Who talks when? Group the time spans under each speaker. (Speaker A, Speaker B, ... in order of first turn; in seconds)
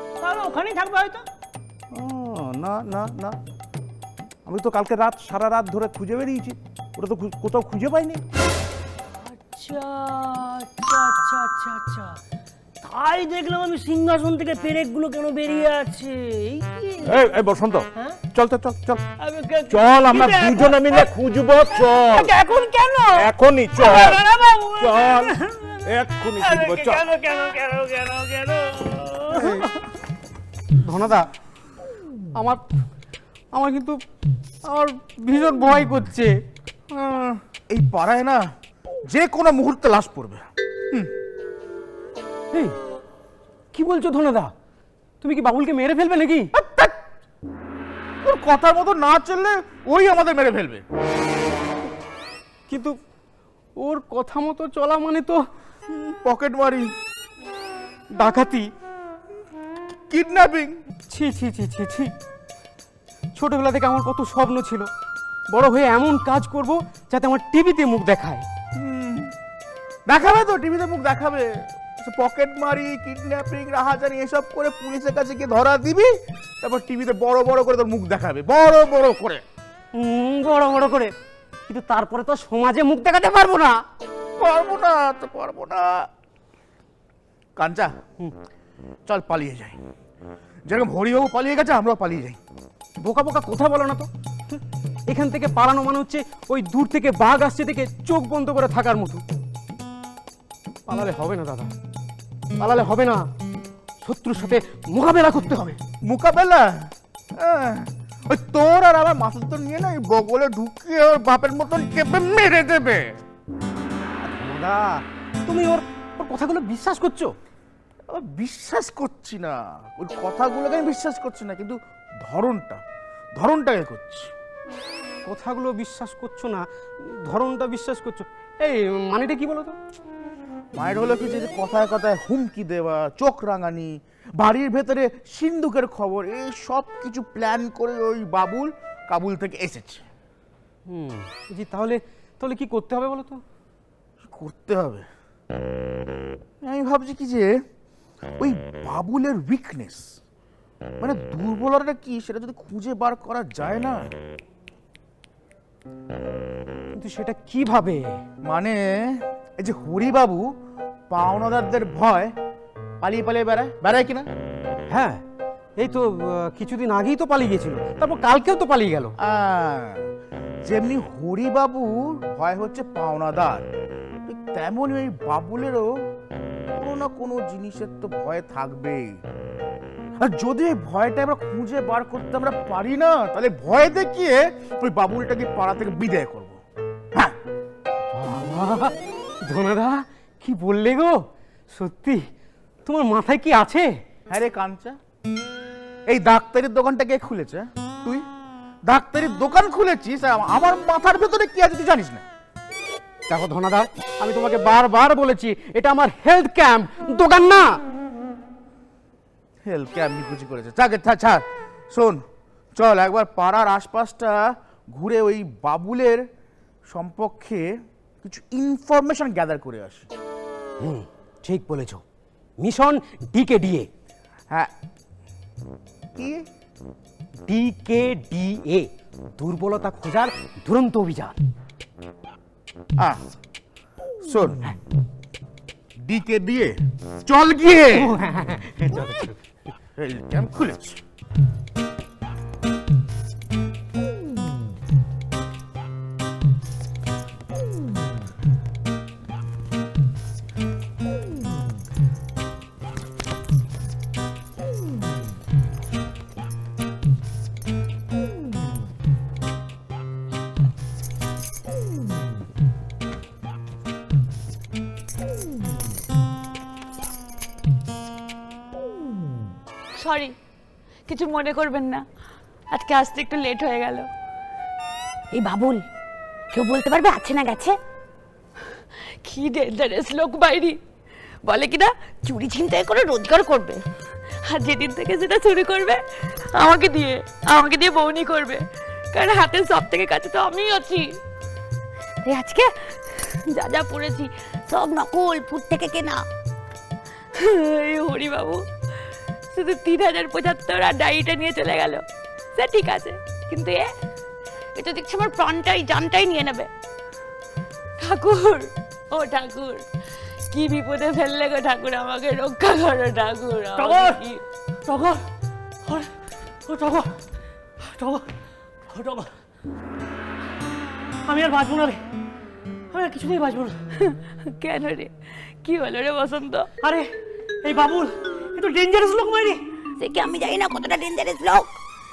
Speaker A: 0.2-1.2, 9.1-12.2, 12.8-17.1, 19.2-21.1, 21.7-25.8, 26.4-29.7, 313.8-314.2, 314.9-315.2, 315.9-316.1, 316.7-317.1, 317.8-318.3, 318.9-319.3, 321.3-322.0, 322.9-323.8, 326.8-327.1, 327.6-329.6
Speaker B: 1.9-3.4, 4.5-8.2, 17.1-19.1, 19.7-22.4, 23.1-24.2, 24.8-27.0
Speaker C: 29.4-29.6, 30.8-31.3, 32.3-32.7, 33.5-34.0, 34.6-36.4, 43.7-44.5, 45.2-46.5, 52.7-53.0, 53.8-55.4, 58.2-58.7, 61.1-62.1, 63.4-64.9, 65.5-68.5, 80.0-81.1, 81.7-83.8, 93.0-99.2, 100.9-101.7, 102.6-103.3, 104.0-105.8, 114.2-117.4, 125.3-129.8, 140.9-143.4, 156.9-158.2, 164.9-165.2, 165.8-169.2, 188.1-191.2, 191.7-192.3, 192.9-193.9, 203.3-207.8, 220.8-222.0, 222.6-223.9, 227.5-231.4, 237.9-239.4
Speaker D: 36.9-38.5, 39.1-41.1, 46.5-47.0, 48.2-50.9, 55.9-56.9, 60.1-60.8, 68.8-69.3, 70.1-79.5, 84.4-86.1, 87.6-88.0, 89.1-89.8, 90.7-92.4, 106.0-113.2, 118.1-124.3, 130.7-140.1, 144.2-145.1, 146.6-147.5, 148.4-150.1, 151.0-154.1, 158.4-160.5, 161.1-162.3, 163.0-164.3, 169.2-170.1, 170.6-173.7, 174.2-176.0, 176.8-179.2, 180.2-186.6, 194.3-195.0, 196.1-198.3, 198.9-202.2, 209.6-212.2, 212.8-216.3, 216.9-220.1, 226.2-226.5, 233.0-233.3, 234.2-234.6, 236.0-238.1, 240.0-241.0
Speaker E: 270.0-270.4, 271.1-272.1, 272.7-274.1, 275.3-275.9, 276.5-277.8, 278.7-280.8, 281.4-283.8, 284.5-286.0, 286.5-291.2, 292.2-296.2, 297.4-298.6, 299.5-302.0, 302.6-303.9, 304.8-306.7, 308.0-309.8, 310.4-314.4, 324.0-326.7, 330.0-331.7